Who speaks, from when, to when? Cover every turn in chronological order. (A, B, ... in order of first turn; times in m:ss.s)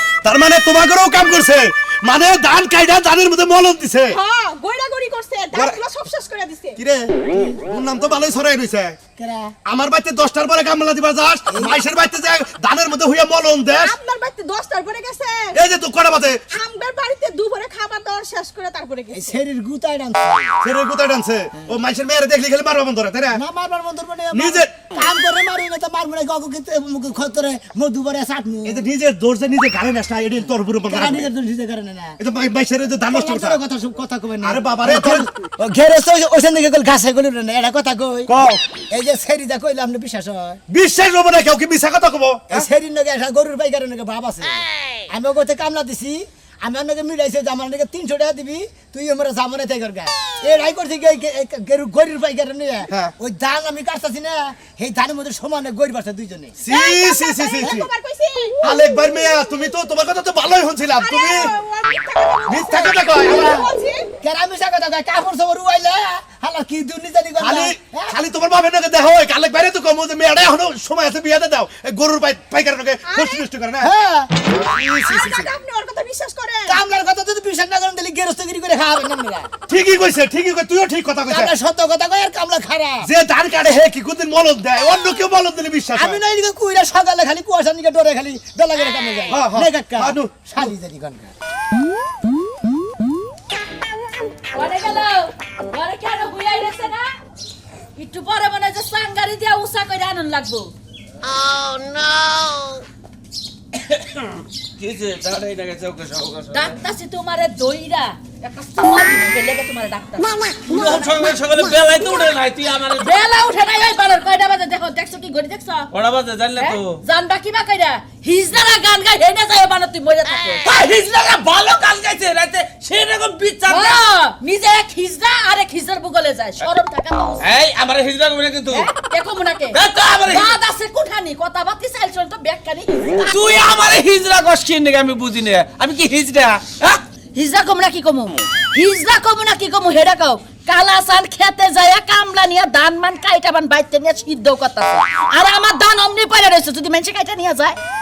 0:00.2-0:04.2 A
0:04.1-0:06.8 B
0:05.5-0:05.8 A
0:06.8-0:07.1 A
0:07.3-0:07.6 C
0:07.6-0:09.0 A
0:09.2-0:09.5 C
0:09.7-0:14.0 A
0:13.7-0:15.6 B
0:15.5-0:16.4 A
0:16.5-0:19.3 B
0:19.1-0:20.5 C
0:20.6-0:23.4 A
0:23.3-0:28.9 C
0:24.3-0:24.7 A
0:28.7-0:31.3 A
0:30.4-0:32.2 C
0:32.2-0:33.6 A
0:33.1-0:38.3 C
0:34.4-0:35.2 A
0:38.3-0:38.6 A
0:38.9-0:40.6 C
0:40.7-0:42.6 A
0:42.5-0:56.6 C
0:56.6-0:57.8 A
0:56.7-0:58.6 B
0:58.6-1:01.5 A
1:01.0-1:04.1 B
1:02.5-1:03.5 A
1:03.3-1:03.6 C
1:04.2-1:08.2 C
1:07.4-1:13.9 A
1:13.1-1:13.4 B
1:13.8-1:14.3 C
1:14.7-1:15.5 A
1:14.9-1:16.8 B
1:16.7-1:19.5 C
1:19.7-1:21.5 A
1:21.3-1:23.1 C
1:23.0-1:26.2 A
1:25.9-1:31.3 C
1:29.3-1:30.4 A
1:34.5-1:37.1 D
1:38.0-1:40.7 D
1:43.8-1:46.8 E
1:46.5-1:50.5 D
1:50.7-1:53.1 E
1:53.0-1:55.9 D
1:55.9-1:57.0 E
1:56.6-2:00.6 D
2:00.6-2:04.0 E
2:03.7-2:07.5 D
2:07.4-2:08.9 E
2:08.7-2:13.4 D
2:09.7-2:10.5 E
2:13.3-2:17.0 E
2:17.4-2:27.8 D